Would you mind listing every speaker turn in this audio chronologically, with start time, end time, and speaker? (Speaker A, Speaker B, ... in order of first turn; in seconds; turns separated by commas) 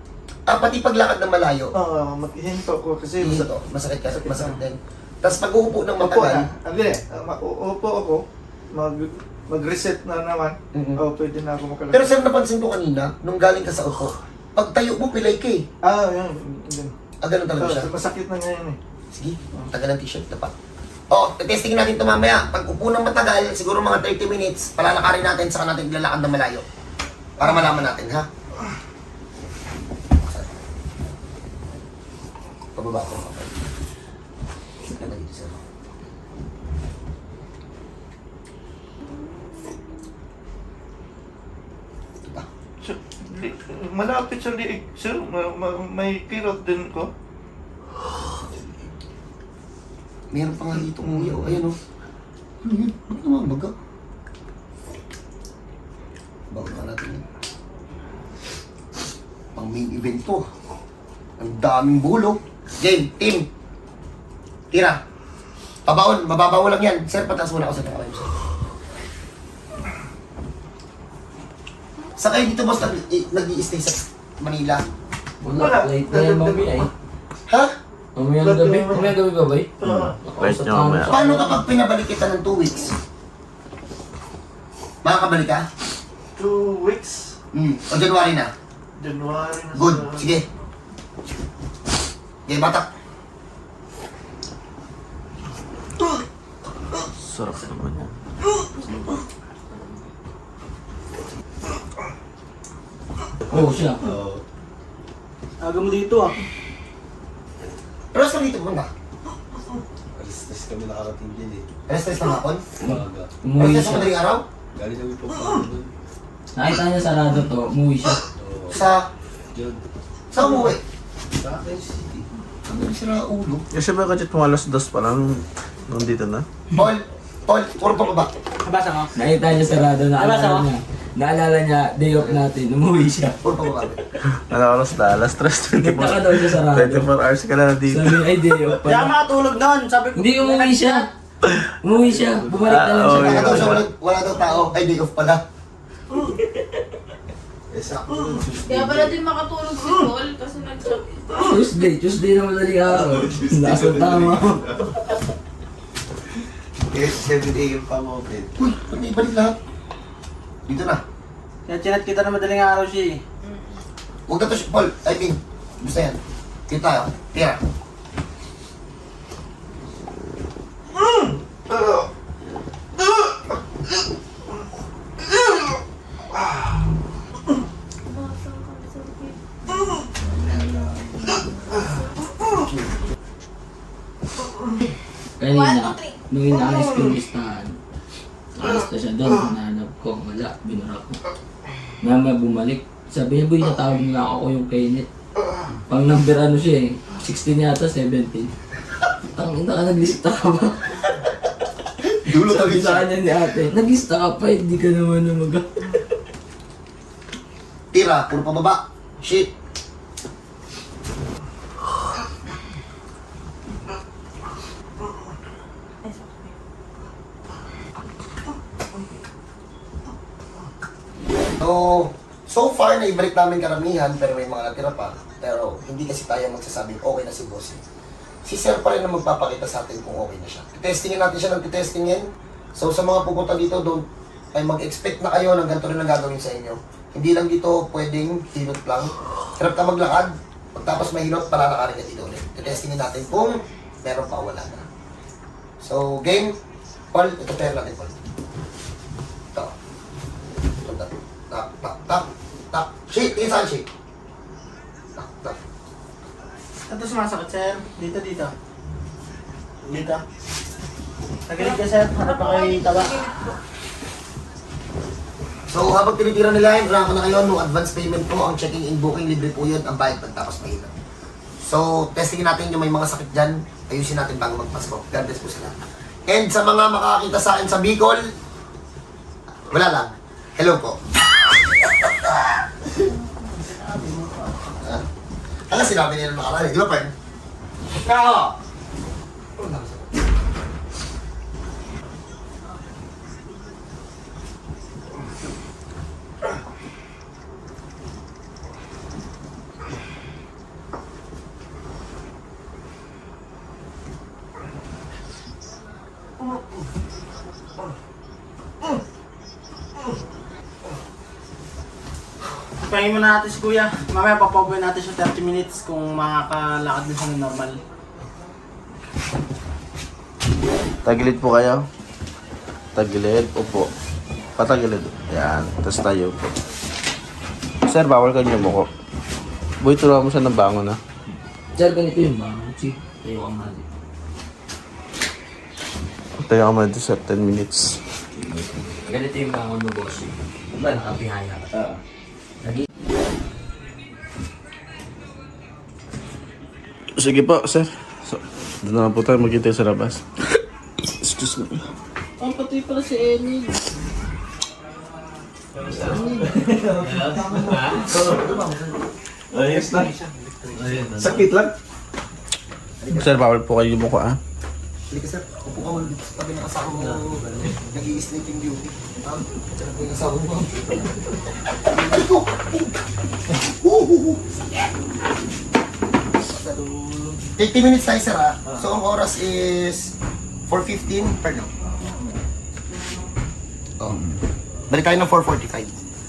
Speaker A: 0.5-1.7, Speaker B: 1.7-3.5, Speaker A: 3.2-6.5, Speaker B: 4.1-4.6, Speaker B: 6.0-12.1, Speaker A: 10.7-11.0, Speaker A: 11.9-15.6, Speaker B: 15.8-16.9, Speaker A: 17.2-17.9, Speaker B: 17.6-18.8, Speaker A: 19.1-20.5, Speaker A: 21.1-26.6, Speaker A: 27.4-28.3, Speaker A: 32.8-33.6, Speaker A: 34.9-35.6, Speaker B: 42.8-47.1, Speaker A: 50.3-51.8, Speaker B: 51.0-51.5, Speaker A: 52.6-53.7, Speaker A: 56.5-57.2, Speaker A: 59.5-60.5, Speaker A: 61.4-63.5, Speaker A: 64.7-65.0, Speaker A: 65.9-68.3, Speaker A: 72.2-74.8, Speaker C: 75.4-76.9, Speaker B: 75.5-76.9, Speaker A: 77.5-77.7, Speaker C: 78.2-81.5, Speaker B: 78.4-79.2, Speaker B: 79.8-80.2, Speaker D: 79.8-81.2, Speaker A: 81.1-82.9, Speaker A: 85.0-85.7, Speaker B: 86.4-87.4, Speaker A: 87.5-88.5, Speaker B: 89.0-90.3, Speaker A: 89.7-90.5, Speaker A: 92.5-92.9, Speaker D: 97.2-98.1, Speaker C: 103.5-104.0, Speaker E: 103.5-104.4, Speaker F: 105.6-106.4, Speaker A: 108.1-108.9, Speaker E: 110.2-111.7, Speaker A: 111.9-112.7, Speaker C: 112.8-114.1, Speaker E: 112.9-113.3, Speaker A: 113.6-114.5, Speaker E: 114.8-115.9, Speaker C: 116.5-118.2, Speaker E: 118.4-118.8, Speaker A: 118.7-119.1, Speaker E: 119.5-119.8, Speaker A: 120.3-120.8, Speaker E: 121.3-122.2, Speaker A: 122.7-123.7, Speaker D: 123.7-126.5, Speaker A: 126.7-128.3, Speaker F: 128.6-129.1, Speaker C: 129.2-133.4, Speaker F: 130.2-130.7, Speaker A: 133.4-134.0, Speaker D: 134.5-138.2, Speaker C: 135.8-137.1, Speaker C: 137.9-139.1, Speaker F: 138.8-141.1, Speaker C: 140.2-141.1, Speaker C: 141.8-143.8, Speaker E: 141.9-142.7, Speaker D: 142.7-143.8, Speaker A: 143.1-145.4, Speaker E: 147.7-149.2, Speaker G: 148.7-151.5, Speaker C: 151.4-154.8, Speaker E: 152.8-154.7, Speaker E: 156.9-158.5, Speaker A: 158.6-159.6, Speaker A: 160.7-161.0, Speaker F: 161.7-163.2, Speaker A: 164.3-167.6, Speaker G: 178.1-179.8, Speaker G: 180.4-182.2, Speaker C: 185.4-187.7, Speaker G: 185.5-186.2, Speaker C: 188.6-191.2, Speaker C: 192.0-195.1, Speaker C: 195.9-198.5, Speaker C: 199.3-201.2, Speaker A: 202.3-203.1, Speaker C: 202.3-206.0, Speaker A: 207.9-209.5, Speaker G: 216.1-216.5, Speaker A: 221.6-227.8, Speaker A: 228.4-244.9, Speaker A: 245.8-246.6, Speaker A: 247.1-248.1, Speaker A: 250.8-253.9, Speaker A: 255.2-255.6, Speaker F: 256.9-258.5, Speaker F: 259.9-260.2, Speaker F: 261.5-263.3, Speaker G: 261.6-263.6, Speaker A: 265.7-270.9, Speaker A: 271.6-278.2, Speaker A: 279.7-281.0, Speaker A: 281.5-282.3, Speaker A: 283.4-285.1, Speaker A: 285.7-287.1, Speaker A: 288.0-288.6, Speaker A: 289.6-290.1, Speaker F: 312.9-317.8, Speaker D: 321.1-321.9, Speaker D: 323.0-323.9, Speaker D: 324.6-326.5, Speaker D: 327.9-328.9, Speaker D: 329.8-331.0, Speaker C: 331.8-333.9, Speaker D: 336.4-338.0, Speaker C: 338.4-341.9, Speaker D: 347.2-350.2, Speaker D: 351.2-351.8, Speaker E: 355.8-356.2, Speaker A: 356.1-356.4, Speaker B: 357.0-357.9, Speaker E: 357.0-358.0, Speaker A: 357.4-359.0, Speaker B: 359.5-361.8, Speaker E: 360.7-361.4, Speaker A: 363.0-363.4, Speaker D: 363.1-364.4, Speaker A: 365.1-374.9, Speaker E: 366.9-367.7, Speaker B: 376.6-377.4, Speaker A: 377.6-380.1, Speaker A: 380.7-381.7, Speaker A: 384.9-385.9